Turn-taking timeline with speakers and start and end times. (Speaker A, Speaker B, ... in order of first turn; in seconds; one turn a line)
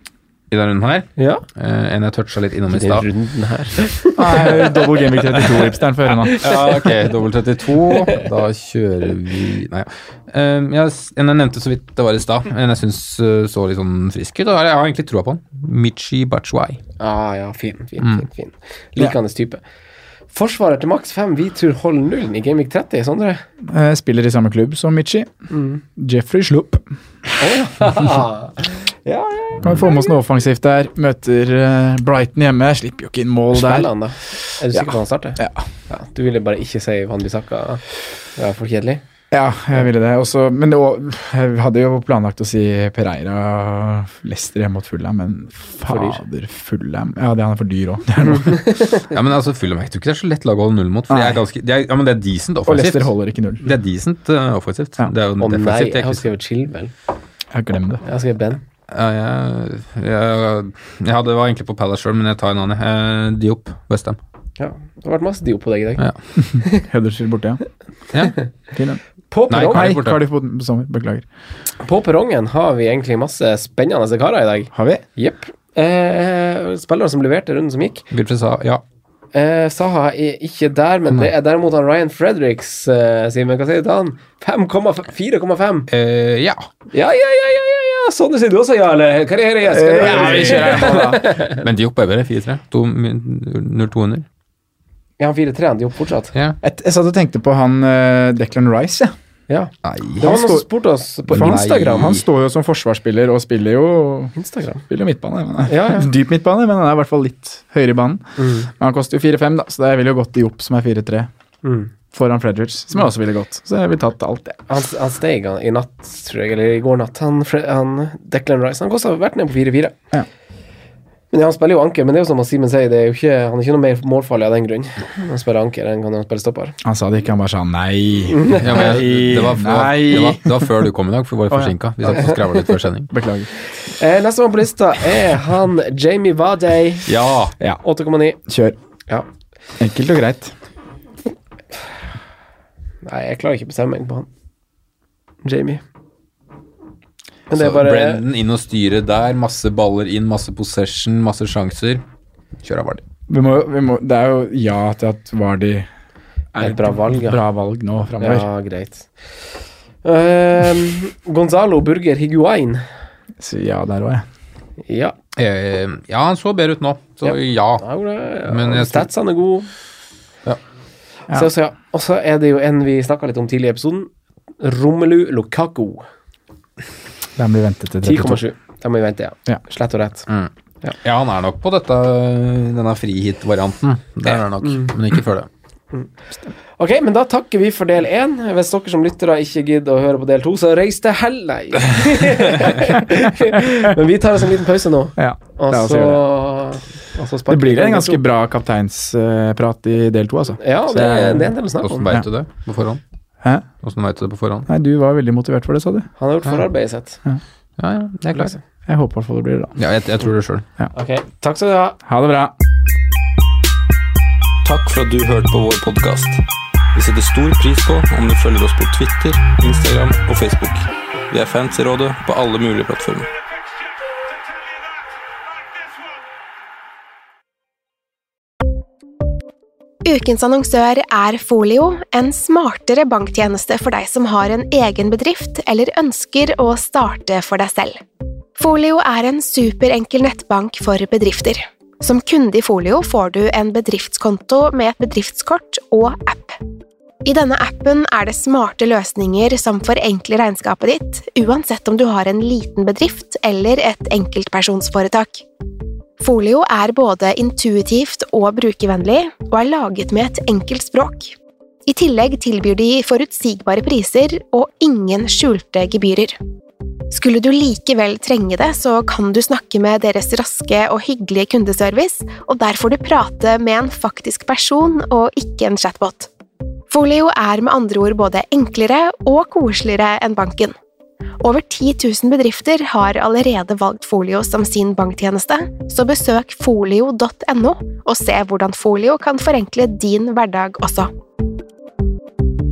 Speaker A: 0.5-3.1
Speaker B: 1.2-1.4
Speaker B: 2.7-5.6
Speaker C: 4.2-6.5
Speaker B: 6.1-6.8
Speaker A: 6.4-16.8
Speaker B: 17.0-19.6
Speaker B: 20.3-23.4
Speaker C: 23.7-25.3
Speaker B: 25.5-25.8
Speaker C: 25.9-26.9
Speaker B: 27.4-29.6
Speaker C: 29.6-35.7
Speaker B: 33.5-37.8
Speaker B: 38.4-39.0
Speaker C: 39.3-48.8
Speaker B: 45.9-46.2
Speaker B: 48.4-49.0
Speaker A: 49.0-56.3
Speaker C: 51.1-51.4
Speaker C: 52.7-53.7
Speaker B: 55.4-56.9
Speaker C: 57.5-58.0
Speaker B: 58.0-58.6
Speaker A: 58.9-64.2
Speaker B: 64.6-66.0
Speaker C: 66.6-67.6
Speaker C: 68.7-69.0
Speaker B: 69.3-69.9
Speaker A: 69.5-70.2
Speaker C: 69.6-71.2
Speaker B: 71.8-78.0
Speaker C: 74.7-75.0
Speaker A: 78.1-78.8
Speaker B: 79.3-85.9
Speaker A: 85.9-86.7
Speaker B: 86.9-91.6
Speaker C: 89.7-91.3
Speaker A: 90.1-94.3
Speaker B: 95.2-96.3
Speaker C: 96.6-99.2
Speaker B: 99.5-102.2
Speaker A: 99.8-100.5
Speaker C: 100.2-100.7
Speaker A: 101.3-102.2
Speaker C: 101.3-104.4
Speaker B: 104.4-104.8
Speaker C: 104.9-111.3
Speaker B: 105.7-106.1
Speaker B: 108.4-108.7
Speaker B: 111.6-111.9
Speaker C: 112.1-114.6
Speaker B: 114.7-120.0
Speaker B: 121.3-126.8
Speaker C: 126.8-130.7
Speaker B: 128.3-129.0
Speaker A: 128.6-133.1
Speaker C: 131.5-131.8
Speaker B: 132.1-132.4
Speaker C: 133.1-133.5
Speaker B: 133.8-137.1
Speaker A: 137.1-137.5
Speaker B: 137.8-138.4
Speaker C: 138.5-138.8
Speaker C: 139.8-140.5
Speaker B: 143.0-144.3
Speaker B: 145.4-145.8
Speaker B: 147.5-148.2
Speaker A: 147.5-152.0
Speaker A: 152.6-153.0
Speaker C: 153.3-155.9
Speaker C: 156.5-158.5
Speaker B: 156.6-157.4
Speaker B: 158.2-159.1
Speaker B: 160.0-162.8
Speaker C: 163.4-164.3
Speaker B: 164.8-165.2
Speaker A: 165.4-167.8
Speaker B: 167.2-169.7
Speaker A: 168.5-169.1
Speaker B: 171.3-176.1
Speaker C: 177.4-178.4
Speaker B: 178.0-180.3
Speaker A: 181.0-185.5
Speaker B: 184.3-184.9
Speaker B: 186.8-198.2
Speaker C: 195.2-196.2
Speaker C: 197.5-201.5
Speaker B: 200.6-202.1
Speaker A: 201.8-203.0
Speaker A: 203.8-204.7
Speaker C: 204.7-206.1
Speaker B: 206.2-207.2
Speaker A: 207.8-208.5
Speaker C: 208.9-209.7
Speaker A: 209.8-210.7
Speaker B: 210.9-212.0
Speaker C: 212.1-212.5
Speaker D: 214.6-216.4
Speaker D: 216.9-223.3
Speaker E: 230.1-238.0
Speaker E: 238.6-246.6
Speaker E: 247.2-255.4
Speaker E: 256.2-261.4
Speaker E: 261.9-266.4
Speaker E: 267.1-276.3
Speaker E: 276.9-280.7
Speaker E: 281.4-291.1